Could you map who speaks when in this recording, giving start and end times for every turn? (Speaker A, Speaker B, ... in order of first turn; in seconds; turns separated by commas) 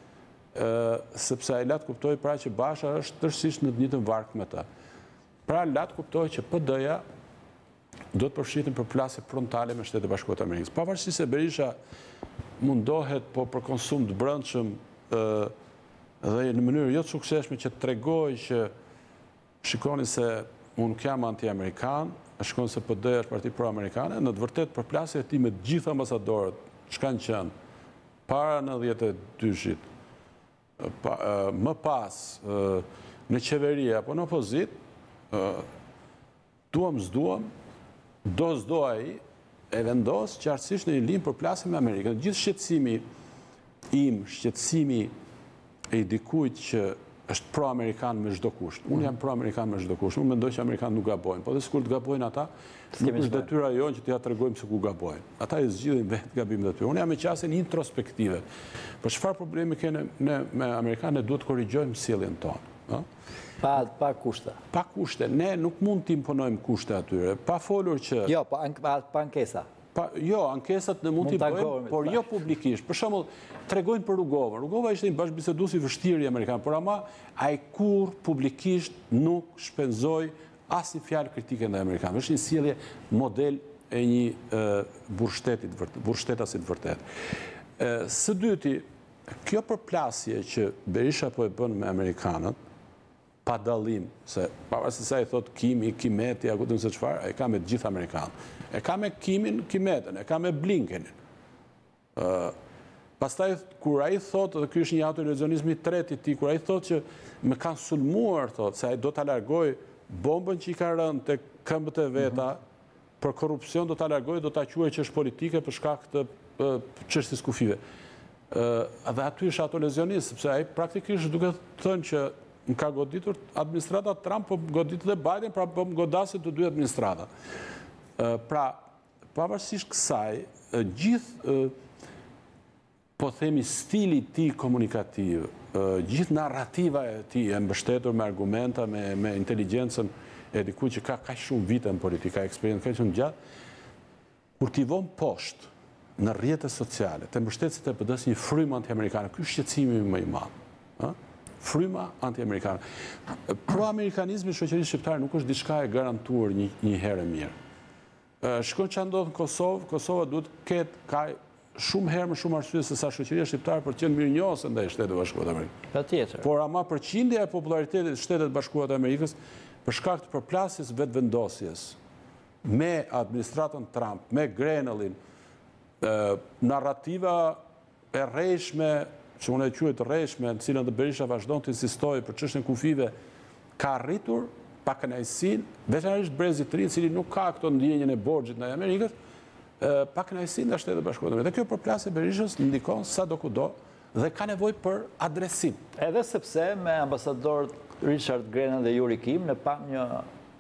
Speaker A: 0.5-4.7, Speaker A: 5.5-7.0, Speaker A: 8.1-11.7, Speaker A: 12.6-15.5, Speaker A: 16.2-18.7, Speaker A: 19.6-27.5, Speaker A: 28.3-29.8, Speaker A: 30.8-34.7, Speaker A: 35.3-35.6, Speaker A: 36.7-37.5, Speaker A: 38.2-43.0, Speaker A: 43.9-45.1, Speaker A: 45.9-58.4, Speaker B: 53.0-53.5, Speaker A: 59.0-63.0, Speaker B: 63.6-64.6, Speaker A: 64.7-68.3, Speaker B: 68.2-69.7, Speaker A: 69.9-87.0, Speaker B: 71.2-72.2, Speaker A: 87.8-88.8, Speaker A: 89.4-92.6, Speaker A: 93.4-101.1, Speaker A: 102.2-102.5, Speaker A: 103.2-112.6, Speaker A: 113.2-117.8, Speaker A: 118.5-127.3, Speaker A: 128.2-128.8, Speaker A: 129.3-131.7, Speaker A: 133.2-143.3, Speaker A: 144.6-152.8, Speaker A: 153.4-157.5, Speaker A: 158.4-165.7, Speaker B: 165.9-166.4, Speaker A: 166.4-172.0, Speaker A: 172.6-175.2, Speaker A: 176.0-177.6, Speaker A: 178.1-183.1, Speaker A: 183.8-189.1, Speaker A: 189.8-195.8, Speaker B: 196.0-200.2